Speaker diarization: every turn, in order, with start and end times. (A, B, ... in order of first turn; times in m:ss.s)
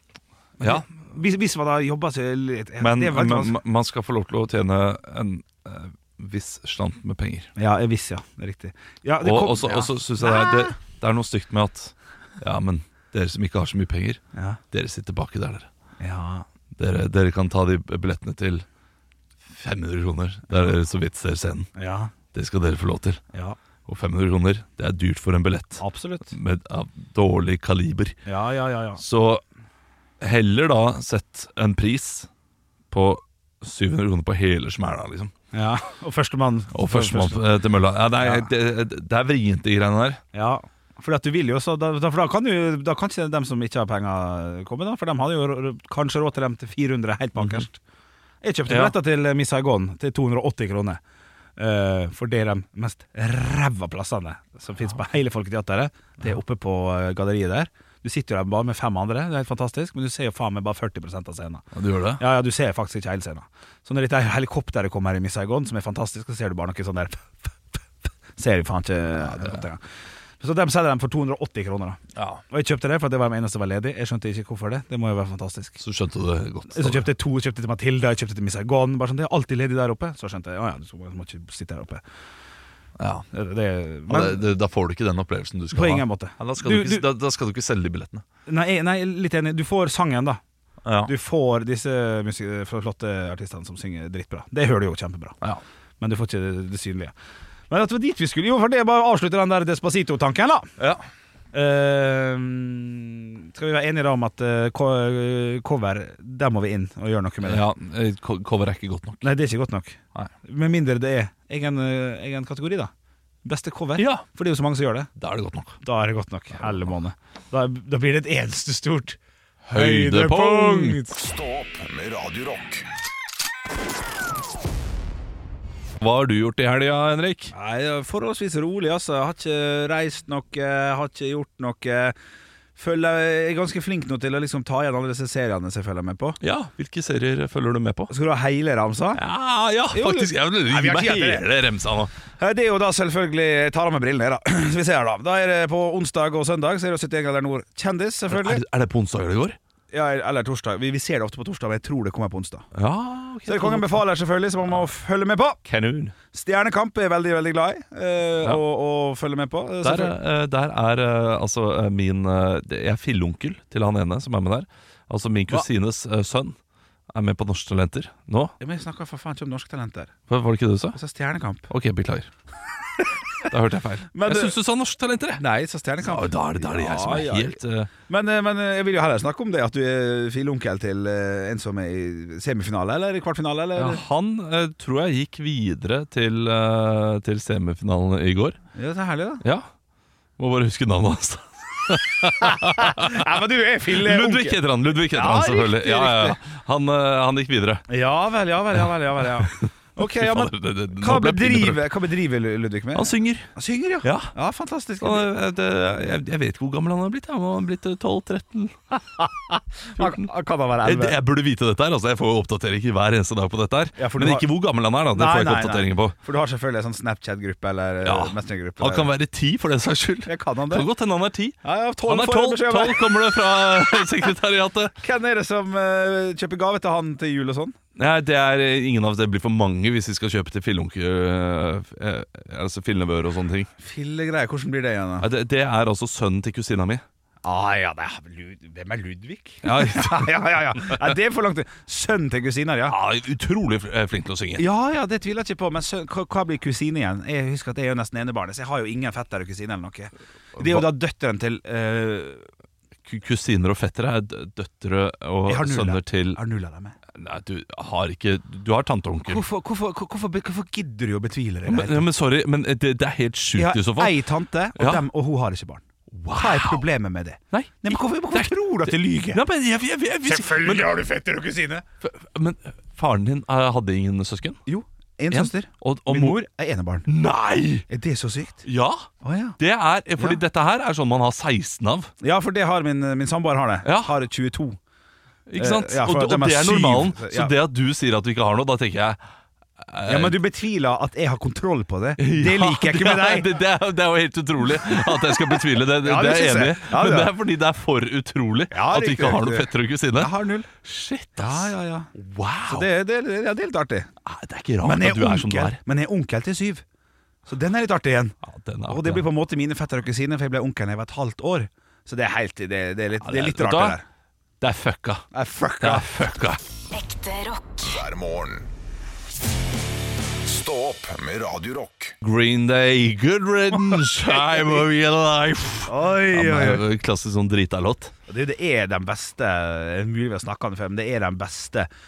0:00.6-0:03.6 A
0:00.6-0:00.9 B
0:02.8-0:07.5 B
0:07.6-0:10.7 A
0:09.2-0:14.2 B
0:14.7-0:15.7 B
0:16.0-0:16.5 A
0:16.8-0:18.6 B
0:19.5-0:21.7 B
0:21.8-0:22.1 A
0:22.3-0:23.2 B
0:23.9-0:28.2 B
0:25.8-0:26.3 A
0:28.3-0:29.0 A
0:29.0-0:29.4 B
0:30.2-0:32.3 B
0:32.9-0:35.3 B
0:35.5-0:37.4 A
0:36.7-0:40.2 B
0:38.2-0:38.5 A
0:40.3-0:47.8 A
0:47.4-0:47.7 B
0:48.4-0:51.0 A
0:48.7-0:49.0 B
0:51.6-1:01.6 A
1:01.7-1:02.2 B
1:02.2-1:07.8 A
1:08.4-1:09.8 A
1:09.3-1:09.6 B
1:10.4-1:15.8 A
1:12.2-1:12.4 B
1:15.8-1:17.1 B
1:16.7-1:22.0 A
1:23.0-1:23.3 B
1:23.3-1:24.4 A
1:24.1-1:28.2 B
1:25.7-1:27.1 A
1:28.5-1:30.4 A
1:30.8-1:31.1 B
1:31.1-1:35.4 A
1:36.0-1:37.1 A
1:37.7-1:40.7 A
1:40.8-1:41.0 B
1:41.5-1:47.6 A
1:47.4-1:49.3 B
1:49.2-1:52.9 A
1:53.4-1:55.1 A
1:54.0-1:54.2 B
1:55.2-1:55.8 B
1:55.8-1:59.2 A
1:59.7-2:01.0 B
1:59.7-2:01.2 A
2:01.1-2:02.9 C
2:06.0-2:07.5 B
2:07.5-2:12.2 A
2:12.8-2:16.4 A
2:16.4-2:18.1 B
2:18.1-2:19.2 A
2:19.2-2:22.1 B
2:19.9-2:21.4 A
2:22.4-2:28.6 A
2:28.3-2:29.6 B
2:29.9-2:32.7 A
2:32.7-2:34.0 B
2:33.5-2:35.6 A
2:35.7-2:36.2 B
2:36.3-2:40.2 A
2:39.8-2:46.6 B
2:47.1-2:48.5 B
2:48.6-2:50.2 A
2:50.3-2:51.0 B
2:51.0-2:51.7 A
2:51.7-2:52.3 B
2:53.5-2:55.4 B
2:54.1-2:54.5 A
2:55.4-3:04.0 A
2:56.0-2:57.9 B
3:03.8-3:08.6 B
3:08.8-3:09.4 A
3:09.4-3:09.7 B
3:10.4-3:13.3 B
3:12.6-3:16.4 A
3:13.9-3:17.8 B
3:17.9-3:25.3 A
3:20.0-3:21.8 B
3:22.9-3:24.3 B
3:25.0-3:29.3 B
3:29.9-3:31.2 A
3:30.0-3:30.3 B
3:30.8-3:36.2 B
3:34.0-3:34.5 A
3:35.1-3:39.1 A
3:38.0-3:44.9 B
3:40.3-3:40.9 A
3:41.6-3:44.1 A
3:45.0-3:47.8 A
3:48.0-3:53.7 B
3:53.8-3:55.3 A
3:55.2-3:57.0 B
3:57.4-4:03.0 A
3:59.6-4:01.0 B
4:02.9-4:04.6 B
4:04.6-4:12.5 A
4:10.6-4:10.9 B
4:13.1-4:16.4 B
4:15.5-4:17.0 A
4:17.2-4:19.4 B
4:19.3-4:22.1 A
4:21.7-4:24.2 B
4:23.6-4:25.8 A
4:24.8-4:25.0 B
4:26.2-4:26.9 B
4:26.3-4:29.4 A
4:27.5-4:31.0 B
4:30.3-4:31.8 A
4:32.0-4:34.6 B
4:34.7-4:37.1 A
4:35.3-4:36.4 B
4:37.1-4:37.9 B
4:37.9-4:38.6 A
4:38.6-4:39.1 B
4:39.2-4:39.6 A
4:39.6-4:42.1 B
4:42.2-4:44.8 A
4:43.8-4:44.1 B
4:45.5-4:49.2 B
4:45.6-4:47.5 A
4:49.8-4:50.4 B
4:50.1-4:53.5 A
4:52.2-5:02.9 B
4:54.8-4:57.3 A
4:58.7-5:00.7 A
5:01.4-5:02.1 A
5:02.7-5:04.1 A
5:04.2-5:05.8 B
5:04.8-5:06.8 A
5:07.5-5:08.4 A
5:08.4-5:09.3 B
5:08.9-5:14.0 A
5:13.2-5:14.0 B
5:14.6-5:15.3 B
5:15.3-5:16.1 A
5:15.8-5:16.6 B
5:17.0-5:18.7 C
5:20.4-5:22.2 C
5:22.2-5:28.1 B
5:25.9-5:26.8 A
5:28.3-5:31.9 A